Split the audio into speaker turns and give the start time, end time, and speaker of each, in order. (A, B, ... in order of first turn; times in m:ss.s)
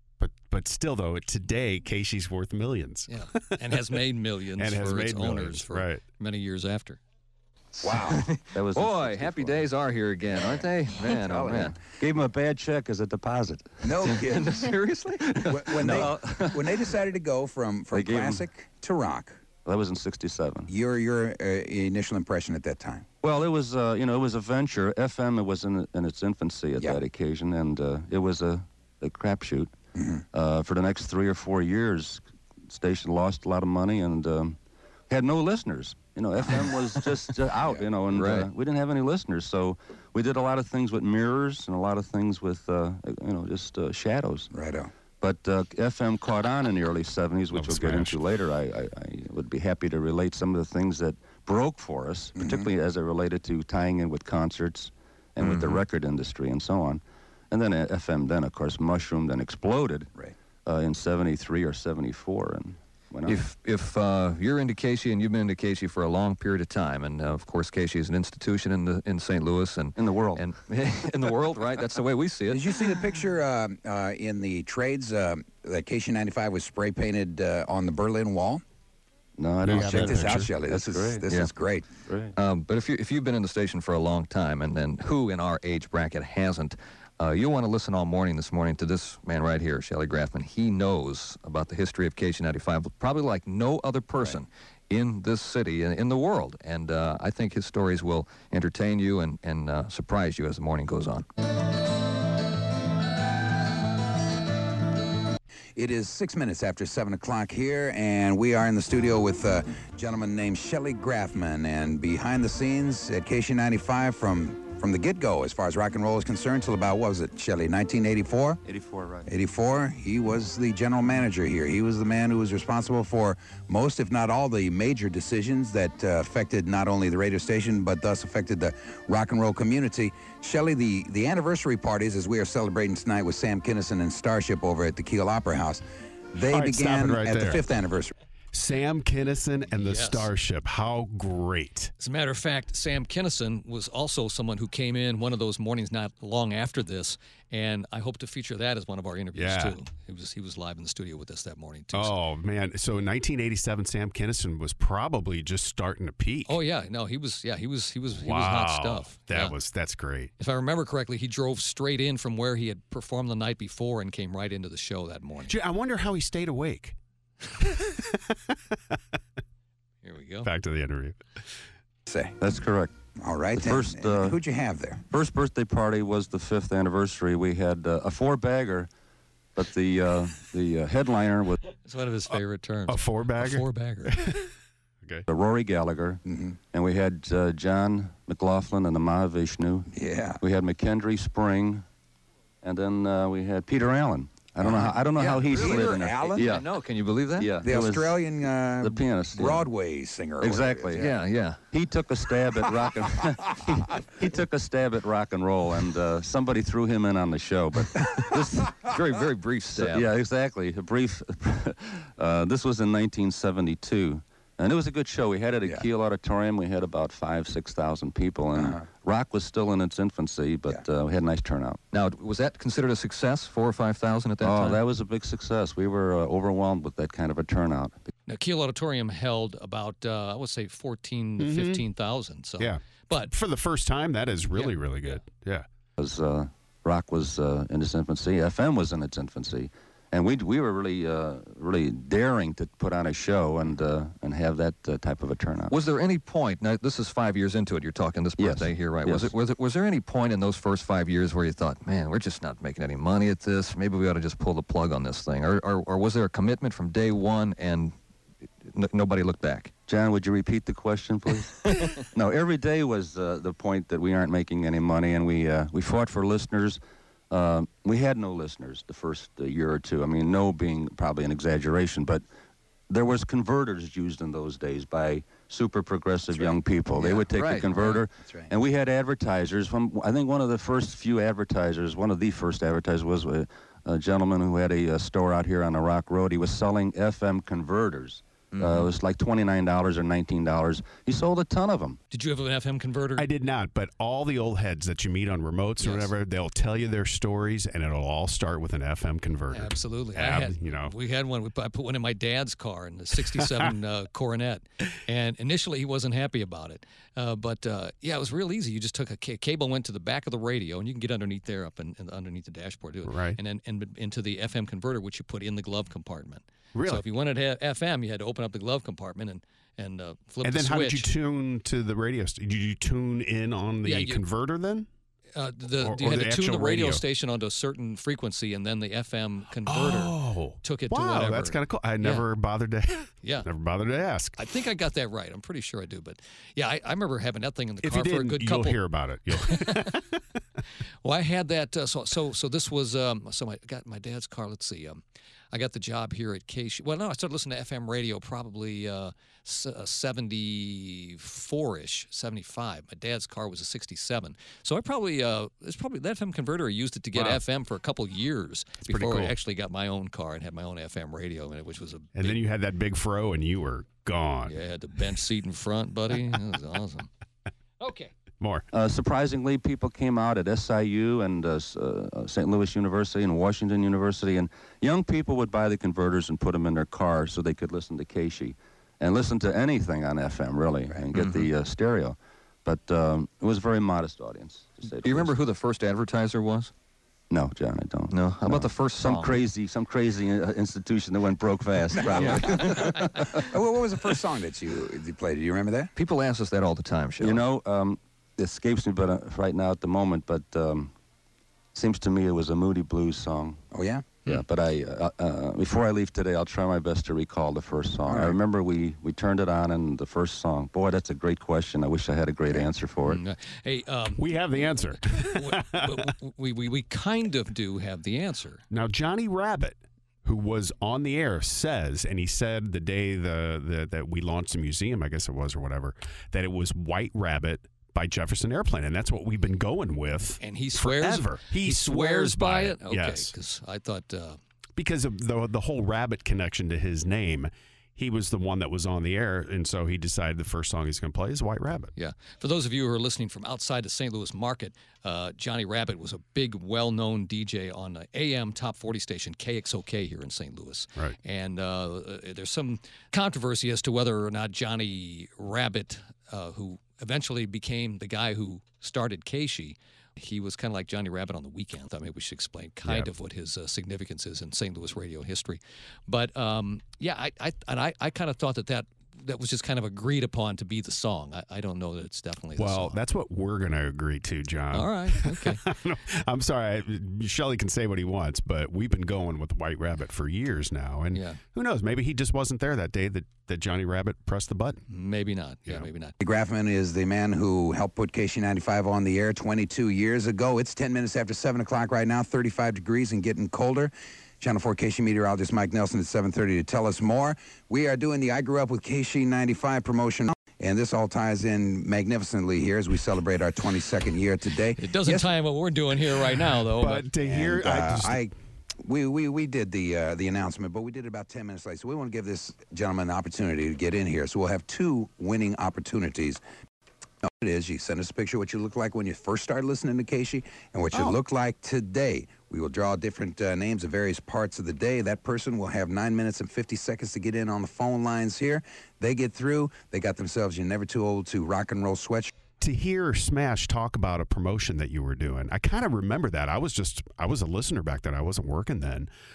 0:00.2-0:03.8 A
0:03.1-0:07.0 B
0:04.6-0:06.0 A
0:07.8-0:08.2 C
0:07.8-0:11.8 D
0:08.5-0:09.7 E
0:11.2-0:11.7 C
0:11.5-0:14.2 E
0:13.8-0:14.7 C
0:14.1-0:16.2 D
0:15.4-0:19.4 C
0:15.8-0:16.8 E
0:17.9-0:18.4 E
0:19.6-0:20.7 E
0:20.7-0:23.0 C
0:23.2-0:29.7 E
0:30.0-0:30.2 C
0:30.3-0:34.6 E
0:35.1-0:44.5 E
0:38.1-0:38.5 D
0:44.5-0:44.9 C
0:45.2-1:00.1 E
0:47.5-0:48.2 A
0:52.4-0:52.7 C
0:55.4-0:55.8 D
1:00.6-1:03.4 E
1:03.2-1:12.6 D
1:10.0-1:10.4 E
1:12.5-1:18.6 C
1:19.4-1:21.2 E
1:19.6-1:20.5 A
1:19.7-1:21.9 C
1:22.1-1:22.3 E
1:22.4-1:41.3 D
1:45.8-1:58.6 C
1:58.6-1:59.3 E
1:59.3-2:18.1 C
2:16.5-2:17.6 A
2:18.5-2:21.9 A
2:19.7-2:20.3 B
2:22.0-2:32.1 B
2:29.3-2:29.8 A
2:31.9-2:36.6 A
2:36.4-2:39.5 B
2:38.2-2:40.3 A
2:40.4-2:45.5 B
2:45.5-2:47.0 A
2:47.6-2:48.5 A
2:50.0-2:50.5 B
2:50.4-2:51.2 A
2:52.1-2:52.4 C
2:52.4-2:52.9 E
2:53.2-2:55.0 C
2:53.5-2:54.4 E
2:55.1-2:58.9 E
2:59.5-3:01.6 E
3:01.8-3:04.2 B
3:02.9-3:04.5 A
3:05.3-3:11.8 E
3:06.3-3:06.6 C
3:09.9-3:10.4 C
3:12.6-3:16.6 E
3:14.6-3:16.5 C
3:16.4-3:17.6 D
3:17.4-3:18.2 E
3:17.6-3:21.1 C
3:18.8-3:19.6 E
3:20.4-3:21.1 E
3:21.0-3:21.6 D
3:21.7-3:28.9 E
3:28.9-3:30.1 D
3:29.7-3:41.8 E
3:38.5-3:38.8 C
3:41.9-3:44.8 D
3:44.4-3:48.0 E
3:48.3-3:53.3 B
3:51.4-3:51.8 A
3:52.6-3:55.6 A
3:54.5-3:55.2 B
3:56.0-4:05.8 E
4:05.7-4:17.9 D
4:08.4-4:09.3 E
4:18.6-4:19.7 D
4:19.9-4:32.2 E
4:21.7-4:22.0 D
4:32.9-4:52.0 E
4:37.0-4:38.0 D
4:52.1-4:53.3 B
4:53.2-5:00.9 A
4:55.8-4:56.1 B
4:59.5-5:21.1 B
5:13.0-5:13.4 A
5:16.7-5:17.0 A
5:20.4-5:24.9 A
5:23.8-5:24.2 B
5:25.4-5:32.2 B
5:25.8-5:27.0 A
5:29.7-5:34.4 A
5:34.4-5:38.8 B
5:37.8-5:40.0 A
5:39.3-5:40.0 B
5:41.0-6:02.4 B
5:57.1-5:57.4 A
5:58.8-5:59.3 A
6:02.2-6:04.6 A
6:04.5-6:07.1 B
6:07.8-6:08.1 B
6:08.4-6:08.6 A
6:08.7-6:25.3 E
6:21.2-6:21.5 D
6:25.0-6:26.7 D
6:27.3-6:33.4 E
6:28.1-6:29.4 D
6:32.0-6:35.9 C
6:32.1-6:33.4 D
6:36.0-6:37.4 D
6:37.2-6:40.9 E
6:41.7-6:43.6 E
6:43.7-6:44.1 C
6:44.2-6:53.2 E
6:48.1-6:48.4 C
6:53.1-6:58.6 B
6:54.2-6:56.1 A
6:58.7-7:13.3 A
7:10.4-7:14.4 B
7:14.8-7:21.9 A
7:22.0-7:53.0 B
7:52.6-8:04.8 A
7:54.7-7:55.6 B
8:01.1-8:01.4 B
8:04.9-8:06.1 B
8:06.2-8:25.3 C
8:24.8-8:27.0 B
8:26.8-8:28.2 A
8:27.2-8:28.3 C
8:28.8-8:36.4 C
8:37.2-8:52.3 C
8:52.6-8:59.1 A